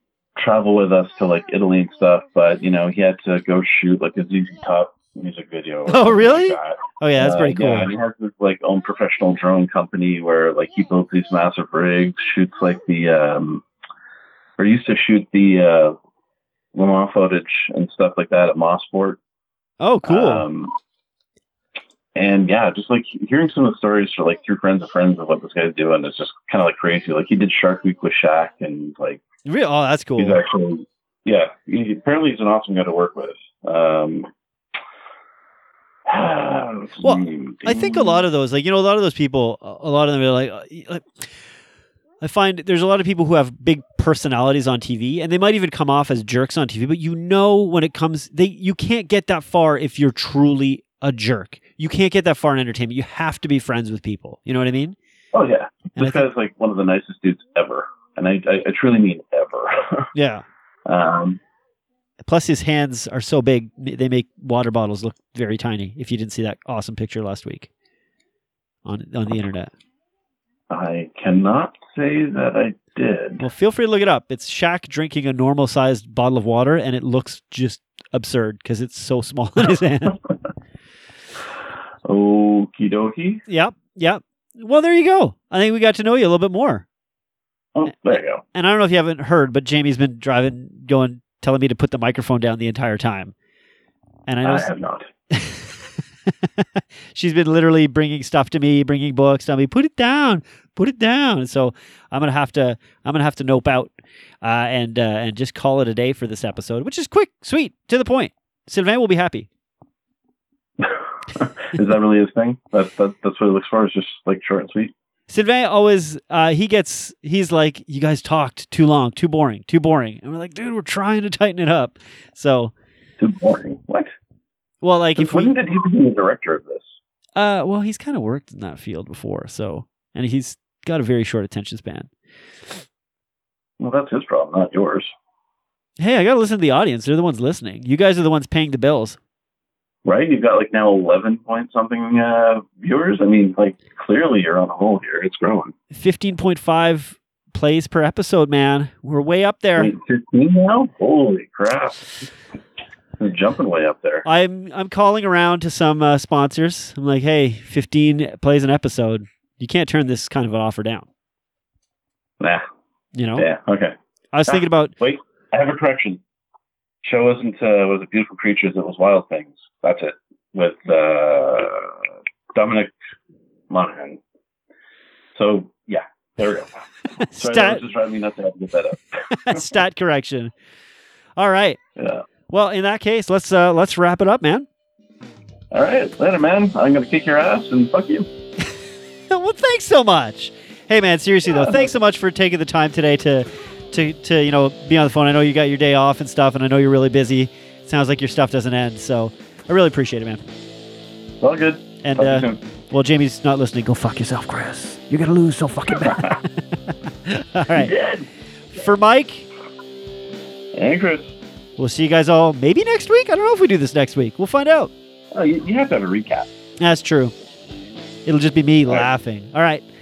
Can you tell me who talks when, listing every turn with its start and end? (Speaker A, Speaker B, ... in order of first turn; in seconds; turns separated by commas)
Speaker A: 0.3-13.6, Speaker B: 5.9-7.9, Speaker A: 14.6-16.0, Speaker A: 16.7-19.2, Speaker B: 19.8-20.4, Speaker A: 20.0-20.7, Speaker A: 22.1-29.2, Speaker B: 29.4-30.4, Speaker A: 30.1-34.3, Speaker A: 36.0-38.2, Speaker B: 37.0-41.3, Speaker B: 42.2-55.0, Speaker A: 55.3-60.1, Speaker B: 56.0-56.2, Speaker B: 60.1-60.4, Speaker A: 60.9-61.4, Speaker B: 62.2-67.7, Speaker B: 68.8-69.7, Speaker A: 70.7-73.4, Speaker B: 73.4-80.2, Speaker A: 82.0-83.4, Speaker B: 83.5-86.8, Speaker A: 87.7-88.4, Speaker B: 88.1-93.3, Speaker B: 94.3-94.7, Speaker A: 94.4-95.1, Speaker B: 95.3-95.7, Speaker B: 96.6-109.5, Speaker A: 110.8-114.9, Speaker B: 115.3-122.7, Speaker A: 123.2-124.1, Speaker B: 124.8-125.5, Speaker A: 125.2-127.0, Speaker B: 127.3-132.1, Speaker A: 133.8-135.1, Speaker B: 136.0-139.2, Speaker A: 140.0-145.7, Speaker B: 145.9-149.9, Speaker A: 149.8-152.1, Speaker A: 153.2-154.2, Speaker B: 154.2-161.1, Speaker B: 163.1-163.5, Speaker A: 163.4-163.9, Speaker B: 164.3-164.9, Speaker A: 164.5-166.2, Speaker A: 167.0-172.9, Speaker A: 173.7-174.2, Speaker A: 175.3-176.8, Speaker B: 177.2-177.8, Speaker A: 177.3-179.6, Speaker B: 179.3-180.5, Speaker B: 181.4-181.8, Speaker A: 181.9-182.2, Speaker B: 182.5-184.7, Speaker A: 185.7-188.3, Speaker B: 189.3-200.4, Speaker A: 191.5-191.9, Speaker A: 201.4-202.6, Speaker B: 202.0-206.5, Speaker B: 207.2-207.9, Speaker A: 207.7-208.3, Speaker B: 208.8-209.5, Speaker A: 210.7-211.3, Speaker B: 211.8-214.9, Speaker A: 215.3-216.5, Speaker B: 216.8-217.3, Speaker B: 218.2-219.8